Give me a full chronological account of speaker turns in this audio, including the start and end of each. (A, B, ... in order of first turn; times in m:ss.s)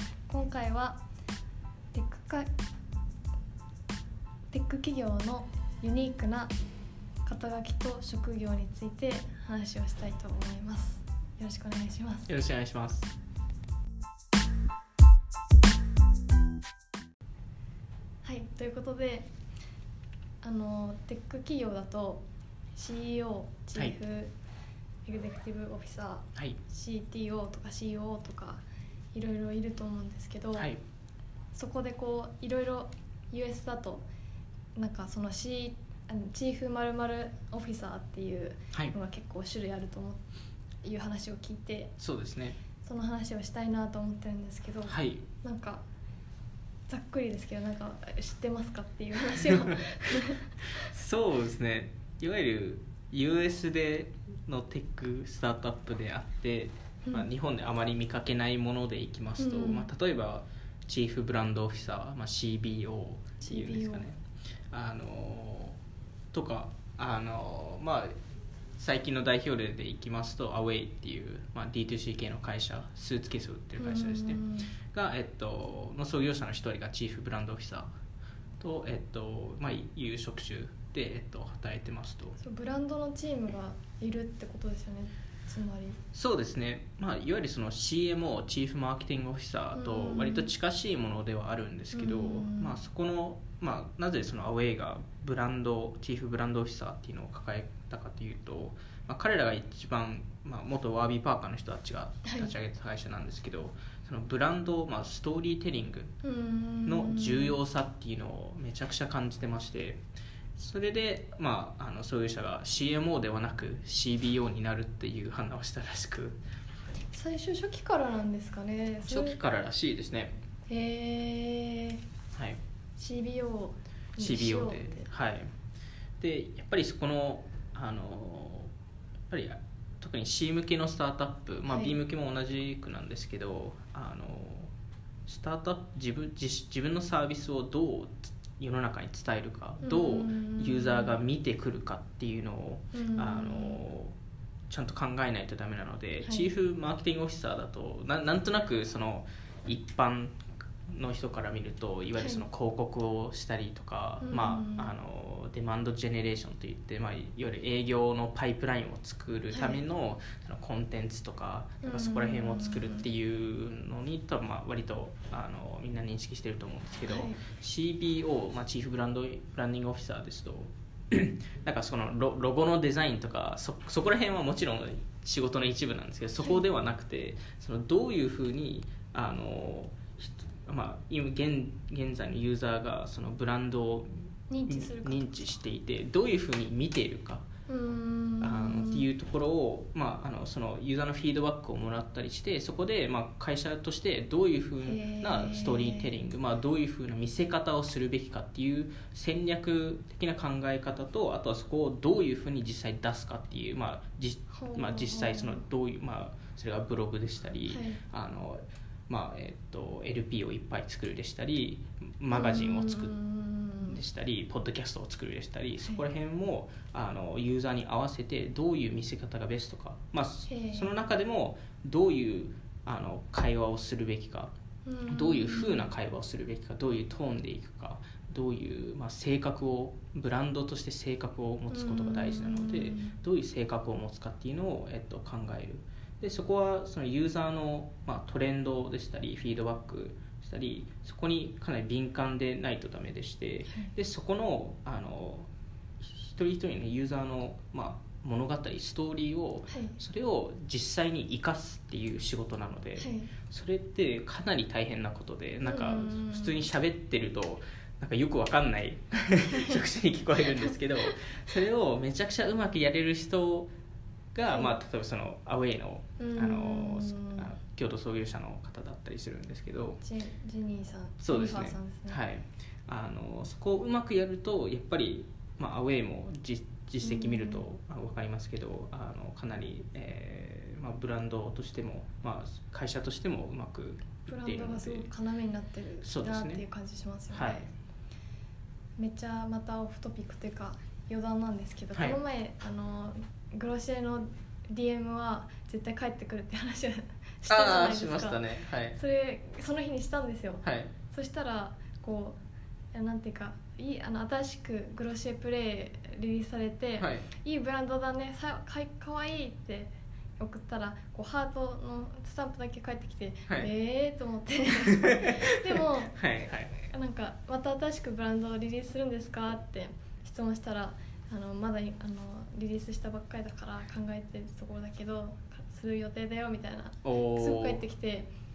0:00.3-0:01.0 A
0:01.9-0:02.5 A
0:04.5-0:06.5 A
0:07.3-0:12.3 A
0:12.3-0:13.1 B
0:18.2-0:19.3 A
0:20.4-0:22.2 A
0:22.8-0:24.3 A
0:25.1-0:28.6 A
0:29.1-0:30.7 A
0:31.5-0:34.0 A
0:34.8-0:40.2 A
0:40.8-0:41.9 A
0:42.0-0:42.6 B
0:42.8-0:45.8 A
0:44.9-0:45.3 B
0:46.9-0:50.9 A
0:49.5-1:04.2 B
0:59.4-0:59.9 A
1:03.4-1:04.0 A
1:04.7-1:05.8 B
1:06.3-1:08.2 B
1:08.8-1:17.9 B
1:13.8-1:14.8 A
1:18.6-1:22.4 B
1:22.4-1:26.0 A
1:26.1-1:46.1 B
1:29.8-1:30.5 A
1:31.9-1:32.8 A
1:42.2-1:42.5 A
1:46.2-1:47.6 A
1:46.9-1:50.0 B
1:50.6-1:56.4 B
1:57.1-1:59.4 A
1:59.0-2:00.4 B
2:00.7-2:02.0 A
2:02.3-2:02.6 B
2:03.0-2:05.1 A
2:04.2-2:05.5 B
2:06.2-2:08.7 B
2:09.3-2:14.7 B
2:11.7-2:12.0 A
2:15.3-2:24.2 B
2:19.8-2:21.2 A
2:22.9-2:23.8 A
2:24.7-3:07.5 B
2:26.2-2:26.5 A
2:32.2-2:32.4 A
2:34.2-2:34.9 A
2:39.5-2:39.8 A
2:41.8-2:43.1 A
2:47.1-2:47.4 A
3:04.5-3:05.4 A
3:07.7-3:09.1 A
3:08.4-3:33.2 B
3:14.8-3:16.2 A
3:24.5-3:25.6 A
3:27.7-3:28.0 A
3:32.3-3:34.0 A
3:33.8-3:44.5 B
3:40.5-3:40.9 A
3:44.9-3:45.9 A
3:45.1-4:05.5 B
3:51.7-3:53.2 A
4:06.0-4:23.7 B
4:09.7-4:10.0 A
4:13.0-4:13.3 A
4:15.6-4:16.6 A
4:24.3-4:30.0 B
4:24.5-4:24.8 A
4:26.2-4:27.5 A
4:30.0-4:32.2 A
4:31.2-4:45.1 B
4:37.0-4:37.6 A
4:44.3-4:47.7 A
4:46.0-4:46.6 B
4:47.3-4:47.7 B
4:49.0-4:58.4 A
4:57.5-4:59.0 B
4:58.9-5:02.4 A
5:00.6-5:00.9 B
5:02.9-5:16.2 A
5:07.0-5:07.3 B
5:14.8-5:16.7 B
5:16.8-5:28.3 A
5:27.0-5:27.8 B